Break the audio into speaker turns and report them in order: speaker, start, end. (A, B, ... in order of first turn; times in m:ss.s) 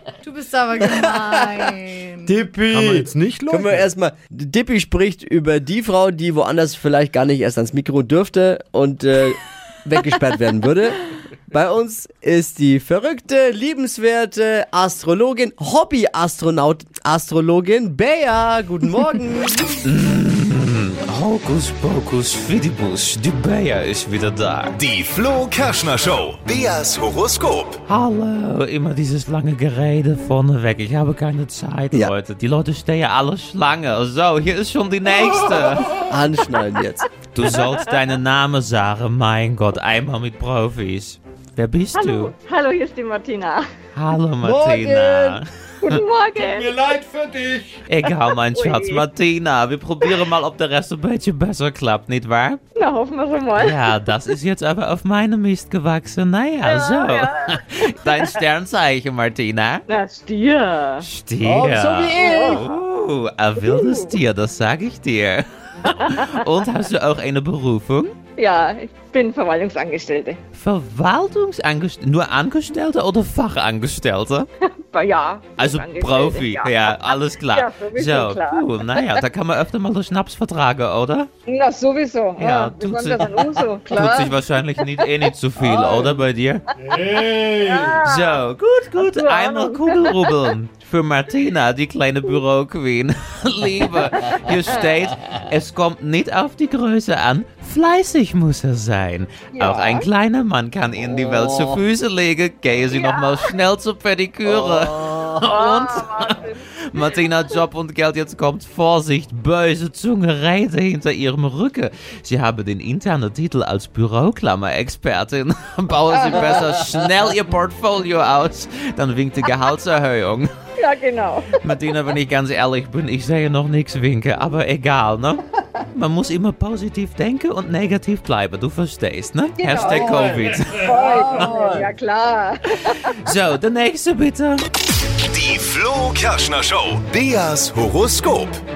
0:00.2-0:02.4 A
0:00.8-0:19.6 B
0:02.7-0:03.9 C
0:19.8-0:24.8 D
0:24.8-0:27.8 E
0:27.9-0:36.1 D
0:36.1-0:37.1 B
0:37.3-0:42.3 D
0:42.0-0:43.7 F
0:43.9-0:46.0 D
0:44.4-0:45.4 B
0:45.8-0:46.7 F
0:46.4-0:47.8 C
0:47.9-0:52.6 D
0:48.5-0:49.0 F
0:52.8-0:53.9 F
0:53.6-0:59.8 D
0:56.6-0:58.2 F
0:59.9-1:01.0 F
1:01.0-1:08.1 D
1:01.4-1:02.6 B
1:02.1-1:02.6 F
1:03.6-1:04.1 F
1:05.8-1:06.4 F
1:08.4-1:10.4 F
1:10.6-1:14.5 D
1:14.6-1:17.0 F
1:15.6-1:21.3 D
1:17.5-1:19.2 F
1:21.5-1:24.4 F
1:22.4-1:26.6 D
1:25.6-1:26.1 F
1:26.8-1:27.9 C
1:27.4-1:28.4 F
1:28.0-2:00.5 D
1:29.0-1:30.4 F
1:34.1-1:34.9 F
1:39.5-1:40.0 F
1:41.0-1:41.8 B
1:42.9-1:43.5 F
1:44.4-1:45.5 B
1:45.5-1:46.6 F
2:00.8-2:01.8 F
2:01.6-2:11.5 D
2:09.6-2:13.1 F
2:09.8-2:11.9 B
2:13.2-2:14.6 D
2:15.3-2:18.5 E